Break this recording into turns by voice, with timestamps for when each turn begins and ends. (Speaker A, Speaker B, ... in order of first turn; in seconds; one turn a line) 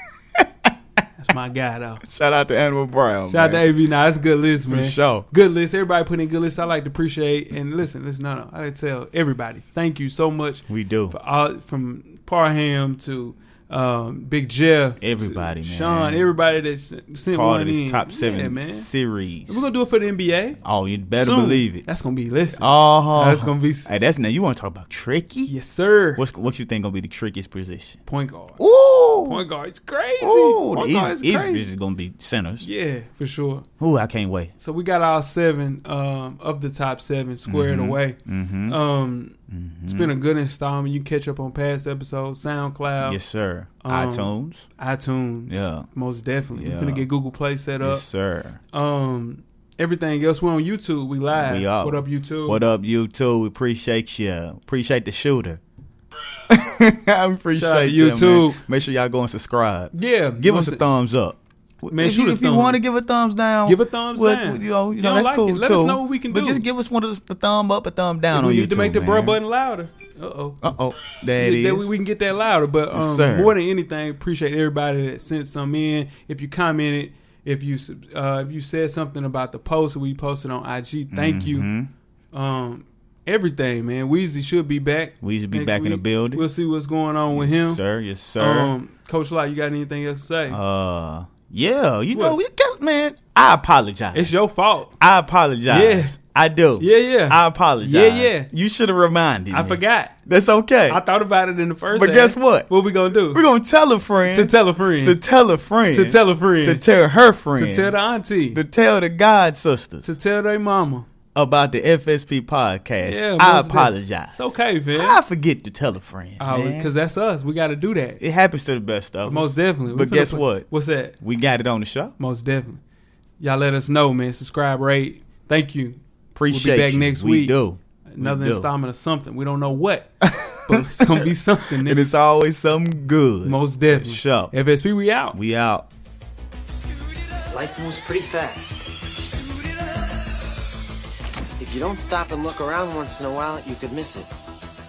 Speaker A: 0.4-0.7
Speaker B: 1.2-2.0
Speaker A: 2.0-3.7
Speaker B: 3.3-18.9
Speaker A: 4.7-5.3
Speaker A: 10.7-11.2
Speaker A: 15.0-16.3
Speaker A: 17.3-19.6
Speaker B: 19.5-20.6
Speaker A: 20.6-21.8
Speaker B: 21.1-23.9
Speaker A: 22.6-25.5
Speaker B: 25.5-26.2
Speaker A: 26.2-28.0
Speaker B: 28.1-28.6
Speaker A: 28.6-29.4
Speaker B: 29.2-31.7
Speaker A: 30.2-32.7
Speaker B: 32.6-33.7
Speaker A: 33.8-34.5
Speaker B: 34.6-39.4
Speaker A: 37.5-38.8
Speaker A: 39.5-40.1
Speaker B: 39.9-43.2
Speaker A: 43.0-44.7
Speaker B: 43.8-48.0
Speaker A: 45.5-45.9
Speaker A: 46.6-47.1
Speaker A: 47.8-48.6
Speaker B: 48.7-52.6
Speaker A: 51.3-55.6
Speaker A: 56.5-69.4
Speaker B: 57.5-58.6
Speaker B: 59.9-60.8
Speaker B: 61.9-62.8
Speaker B: 63.6-66.7
Speaker B: 68.3-70.6
Speaker A: 70.6-71.9
Speaker B: 71.4-81.7
Speaker A: 72.9-73.5
Speaker A: 81.1-81.9
Speaker B: 82.3-87.8
Speaker A: 85.2-86.5
Speaker A: 87.3-88.7
Speaker B: 88.4-90.6
Speaker A: 90.5-94.3
Speaker B: 92.1-92.4
Speaker B: 94.1-95.0
Speaker A: 95.0-101.0
Speaker B: 95.7-96.2
Speaker B: 96.8-98.5
Speaker B: 99.5-100.2
Speaker B: 100.9-103.5
Speaker A: 101.9-102.7
Speaker A: 103.3-108.0
Speaker B: 104.3-105.2
Speaker B: 105.9-106.8
Speaker B: 107.6-108.6
Speaker A: 108.5-110.2
Speaker B: 110.0-111.1
Speaker A: 111.3-116.9
Speaker B: 113.0-115.2
Speaker B: 116.4-118.2
Speaker A: 118.2-120.7
Speaker B: 119.2-121.2
Speaker A: 121.2-122.2
Speaker B: 122.2-122.8
Speaker B: 123.4-127.6
Speaker A: 126.3-128.7
Speaker B: 128.1-132.1
Speaker A: 130.2-131.3
Speaker A: 131.8-134.5
Speaker B: 133.4-135.4
Speaker A: 135.3-135.9
Speaker C: 137.5-138.9
Speaker C: 141.6-144.3